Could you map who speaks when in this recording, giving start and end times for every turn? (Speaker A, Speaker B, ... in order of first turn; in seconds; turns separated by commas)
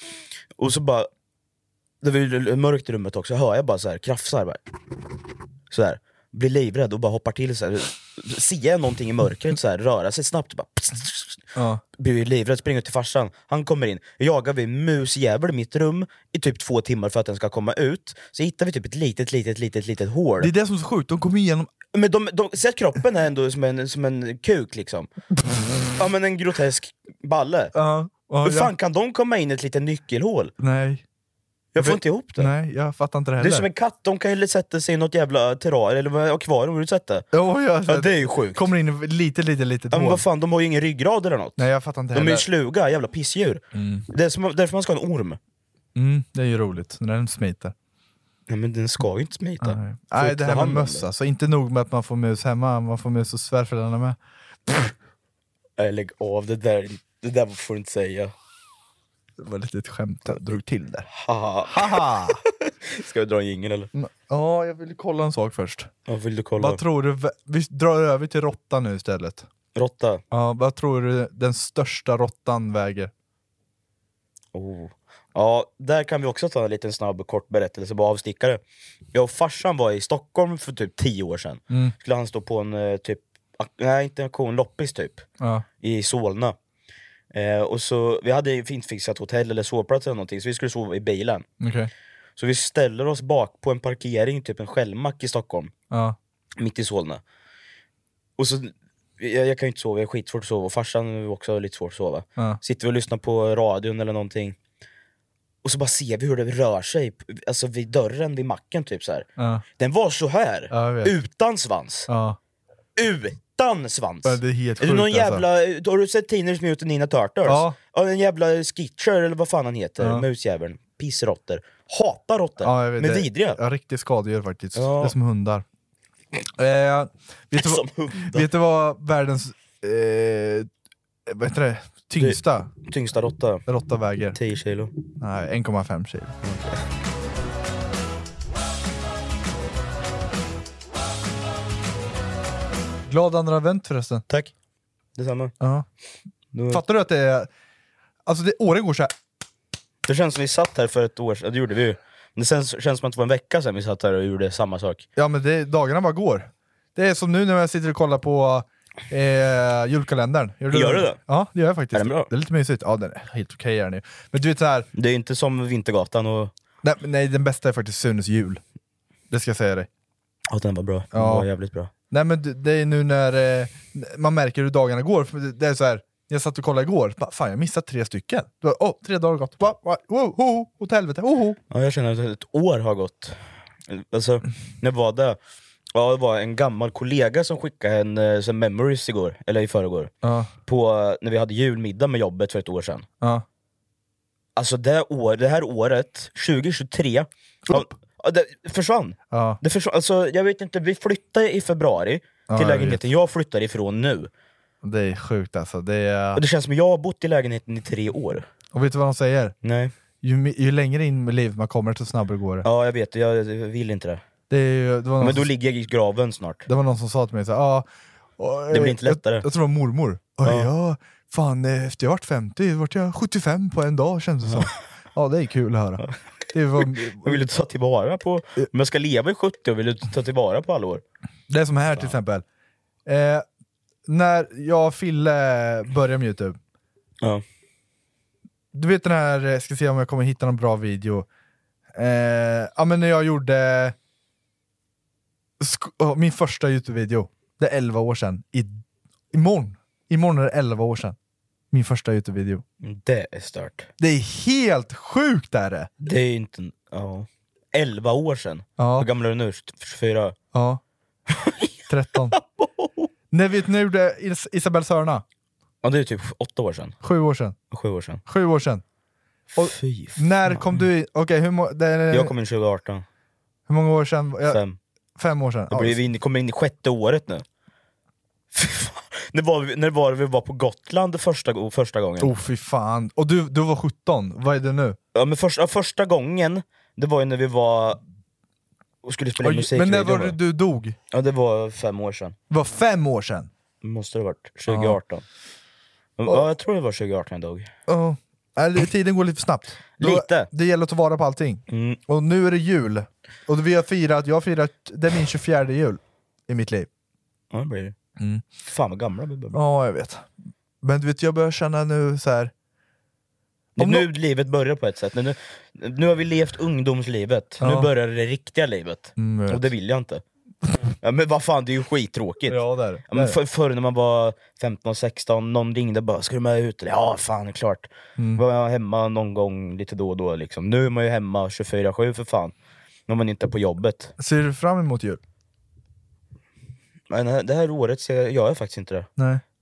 Speaker A: 0.6-1.1, Speaker A: 2.0-4.6, Speaker A: 5.7-11.4, Speaker B: 11.5-11.8, Speaker A: 12.0-20.5, Speaker B: 20.4-21.7, Speaker A: 21.9-25.1, Speaker A: 25.9-27.7, Speaker B: 27.7-28.7, Speaker A: 28.4-30.5, Speaker B: 30.6-31.0, Speaker A: 31.7-32.5, Speaker B: 31.8-33.7, Speaker A: 33.4-37.3, Speaker B: 37.3-40.2, Speaker A: 37.9-38.7, Speaker A: 39.9-45.4, Speaker B: 41.6-42.5, Speaker B: 43.7-44.1, Speaker B: 45.9-47.7, Speaker A: 48.5-51.0, Speaker B: 49.6-54.9, Speaker A: 55.8-58.3, Speaker B: 59.4-61.1, Speaker A: 61.1-63.9, Speaker B: 61.6-62.4, Speaker B: 63.9-65.9, Speaker A: 66.1-66.8, Speaker B: 66.6-69.5, Speaker A: 69.7-70.2, Speaker B: 70.3-73.1, Speaker A: 74.5-78.6, Speaker A: 79.1-85.2, Speaker B: 85.4-85.7, Speaker A: 85.8-86.5, Speaker A: 87.3-91.5, Speaker B: 91.6-91.9, Speaker A: 92.4-95.7, Speaker B: 95.9-96.2, Speaker A: 96.6-97.2, Speaker A: 98.4-104.5, Speaker A: 105.6-109.3, Speaker B: 109.4-109.6, Speaker A: 109.8-112.1, Speaker B: 110.7-111.1, Speaker B: 112.1-112.4, Speaker A: 113.0-123.6, Speaker B: 114.2-115.4, Speaker B: 117.5-117.8, Speaker B: 120.0-120.2, Speaker B: 122.6-125.6, Speaker A: 124.7-125.1, Speaker B: 126.5-130.7, Speaker A: 127.5-128.5, Speaker B: 131.3-132.7, Speaker A: 132.2-133.6, Speaker B: 133.7-134.4, Speaker A: 134.3-134.9, Speaker B: 135.2-136.3, Speaker A: 136.4-136.8, Speaker B: 143.1-144.2, Speaker A: 145.2-145.5, Speaker B: 145.6-145.8, Speaker A: 146.5-146.8, Speaker B: 146.7-147.5, Speaker B: 148.2-149.1, Speaker A: 150.0-155.0, Speaker B: 155.2-164.9, Speaker A: 160.7-161.2, Speaker A: 161.9-162.3, Speaker A: 164.9-166.5, Speaker B: 166.8-168.6, Speaker B: 169.3-169.9, Speaker A: 170.5-171.9, Speaker B: 171.1-171.5, Speaker B: 172.1-181.6, Speaker A: 181.7-185.4, Speaker A: 185.9-190.1, Speaker B: 190.2-190.5, Speaker A: 190.6-193.1, Speaker A: 194.6-204.3, Speaker B: 199.3-199.6, Speaker B: 202.5-203.0, Speaker B: 204.8-206.4, Speaker A: 206.3-208.4, Speaker B: 208.7-209.5, Speaker A: 209.6-209.9, Speaker B: 210.2-212.7, Speaker A: 212.6-214.2, Speaker B: 214.5-215.5, Speaker A: 215.2-216.7, Speaker B: 216.7-217.9, Speaker B: 218.4-227.4, Speaker A: 218.7-219.4, Speaker A: 220.4-220.7, Speaker A: 226.8-231.0, Speaker B: 231.5-232.4, Speaker B: 233.1-233.4, Speaker B: 234.1-236.6, Speaker B: 238.7-241.3, Speaker B: 241.9-243.9, Speaker B: 245.6-251.2, Speaker B: 251.7-252.6, Speaker A: 252.8-253.9, Speaker B: 254.0-255.9, Speaker A: 256.0-260.4, Speaker B: 258.8-259.1, Speaker B: 260.5-260.8, Speaker A: 261.3-261.7, Speaker B: 261.9-262.4, Speaker A: 262.3-263.1, Speaker B: 263.3-265.2, Speaker A: 265.8-266.9, Speaker B: 267.0-267.6, Speaker A: 267.7-268.2, Speaker B: 268.2-268.8, Speaker A: 269.5-270.6, Speaker B: 269.6-272.3, Speaker A: 272.1-273.0, Speaker B: 273.7-274.6, Speaker A: 274.5-274.8, Speaker B: 275.1-276.0, Speaker A: 275.7-277.4, Speaker A: 278.5-282.3, Speaker B: 282.2-285.0, Speaker A: 285.1-288.0, Speaker A: 289.0-290.4, Speaker B: 289.4-290.9, Speaker A: 291.1-292.4, Speaker B: 292.5-293.5, Speaker A: 293.8-295.2, Speaker B: 294.7-295.0, Speaker A: 296.2-297.7, Speaker B: 297.9-306.9, Speaker A: 300.0-300.5, Speaker A: 301.7-302.0, Speaker A: 307.5-307.9, Speaker B: 308.2-308.4, Speaker A: 308.7-309.6, Speaker B: 309.5-310.3, Speaker B: 310.8-312.5, Speaker A: 313.8-320.2, Speaker B: 313.8-314.1, Speaker B: 317.6-317.9, Speaker B: 319.1-319.7, Speaker A: 321.0-332.5, Speaker B: 322.5-323.4, Speaker B: 328.2-328.4, Speaker A: 333.1-334.1, Speaker B: 334.2-335.2, Speaker A: 337.1-339.1, Speaker B: 339.2-339.4